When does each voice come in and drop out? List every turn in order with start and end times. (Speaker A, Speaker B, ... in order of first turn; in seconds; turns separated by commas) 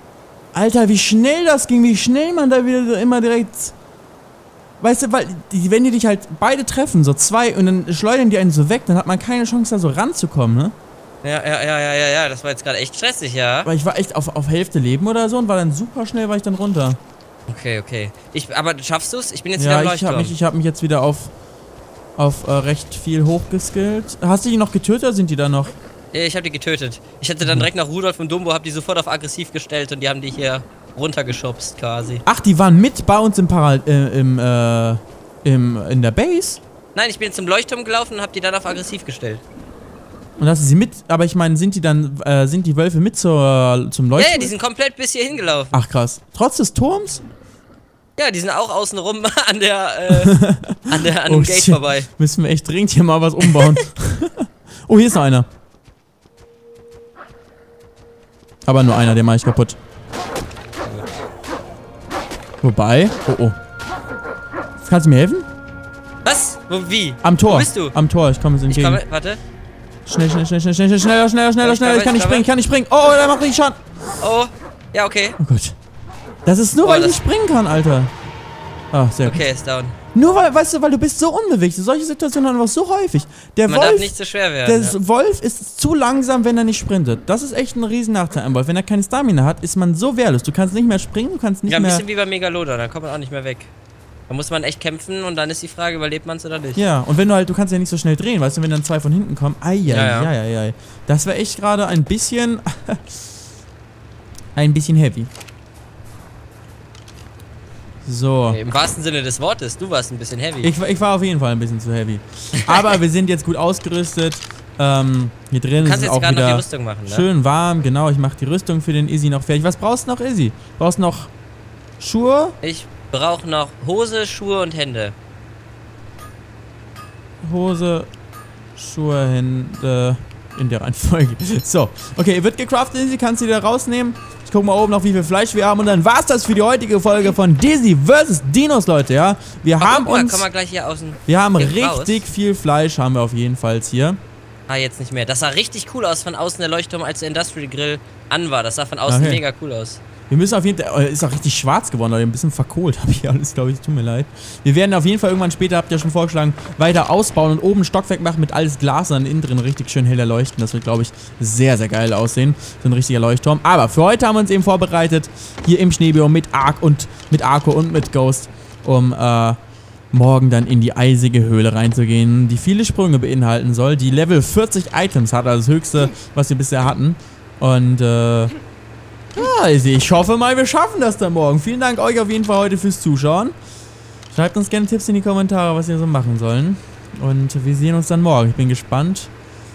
Speaker A: 0.5-3.7, Speaker A: 4.8-10.7, Speaker B: 11.2-13.7, Speaker A: 13.6-17.0, Speaker B: 17.5-20.4, Speaker A: 19.6-21.3, Speaker A: 22.2-25.8, Speaker B: 26.1-32.2, Speaker A: 27.4-27.7, Speaker A: 32.2-36.6, Speaker B: 36.9-39.4, Speaker A: 40.4-44.5, Speaker B: 44.1-45.8, Speaker A: 45.7-47.2, Speaker B: 48.2-52.1, Speaker A: 50.1-55.5, Speaker B: 53.4-53.8, Speaker A: 58.6-59.8, Speaker A: 62.6-63.6, Speaker A: 64.8-65.5, Speaker B: 66.2-67.9, Speaker A: 67.2-69.0, Speaker B: 68.7-69.4, Speaker A: 70.0-73.8, Speaker B: 71.6-72.5, Speaker B: 74.2-75.4, Speaker A: 75.4-75.8, Speaker A: 76.4-78.1, Speaker B: 76.8-77.2, Speaker A: 78.9-79.5, Speaker B: 79.2-80.0, Speaker A: 80.1-84.1, Speaker B: 83.7-85.0, Speaker A: 84.6-92.0, Speaker B: 91.7-93.7, Speaker B: 94.3-96.8, Speaker A: 96.8-103.2, Speaker B: 99.9-100.3, Speaker A: 104.5-105.3, Speaker A: 108.0-108.6, Speaker B: 108.5-110.7, Speaker A: 110.6-121.3, Speaker B: 112.6-112.9, Speaker B: 115.8-117.3, Speaker A: 122.0-122.6, Speaker B: 122.6-125.2, Speaker A: 127.4-128.1, Speaker A: 128.8-140.4, Speaker B: 139.8-142.2, Speaker A: 141.3-144.2, Speaker B: 144.7-150.0, Speaker A: 149.1-149.4, Speaker A: 150.3-169.6, Speaker A: 170.1-178.5, Speaker A: 179.3-183.5, Speaker A: 184.3-189.3